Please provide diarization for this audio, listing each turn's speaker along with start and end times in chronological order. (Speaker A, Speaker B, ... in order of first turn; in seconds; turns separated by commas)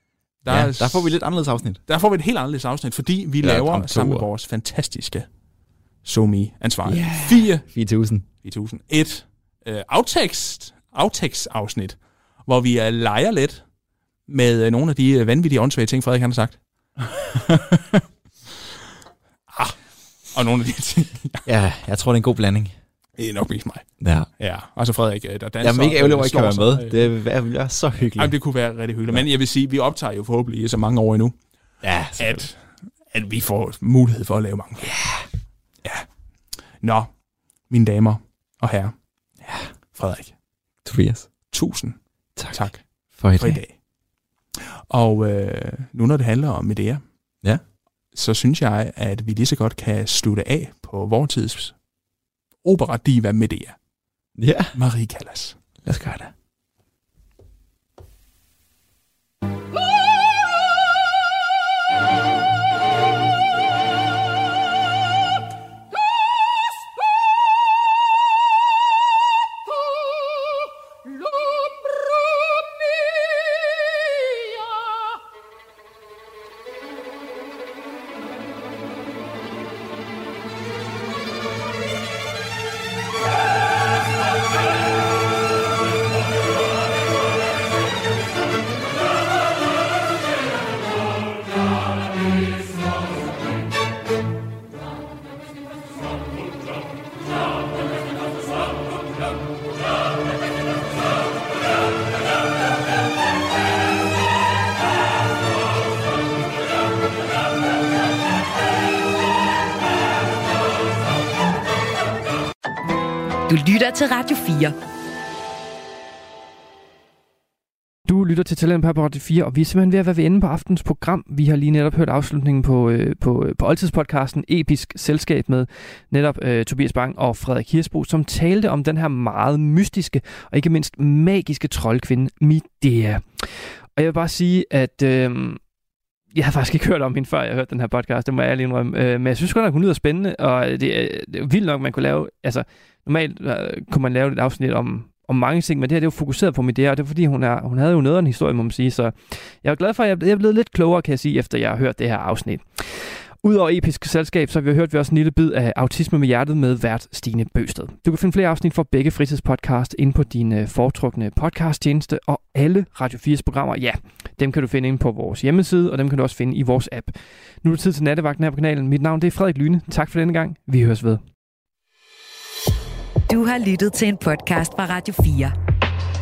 Speaker A: 0.4-1.1, Speaker B: 0.5-1.8, Speaker A: 1.9-5.3, Speaker B: 3.4-4.3, Speaker A: 6.0-7.6, Speaker B: 6.8-8.3, Speaker A: 8.4-13.6, Speaker A: 14.3-16.6, Speaker B: 17.3-18.0, Speaker A: 19.5-19.8, Speaker A: 20.3-21.5, Speaker B: 21.4-22.7, Speaker A: 23.2-23.9, Speaker B: 24.0-24.3, Speaker A: 24.4-27.1, Speaker B: 25.6-28.4, Speaker A: 28.2-31.3, Speaker B: 31.8-32.5, Speaker A: 32.2-32.6, Speaker A: 33.1-35.0, Speaker B: 34.9-35.2, Speaker A: 36.8-37.1, Speaker A: 37.7-38.9, Speaker A: 39.9-40.3, Speaker B: 40.8-41.3, Speaker A: 41.5-42.0, Speaker B: 42.4-43.6, Speaker A: 42.5-42.8, Speaker A: 43.4-43.8, Speaker A: 44.6-47.0, Speaker A: 48.1-51.8, Speaker A: 52.6-53.8, Speaker B: 54.4-54.8, Speaker A: 54.8-55.6, Speaker B: 55.8-56.3, Speaker C: 70.0-75.1, Speaker D: 113.5-114.8, Speaker E: 118.1-135.6, Speaker E: 136.3-171.2, Speaker D: 173.3-175.6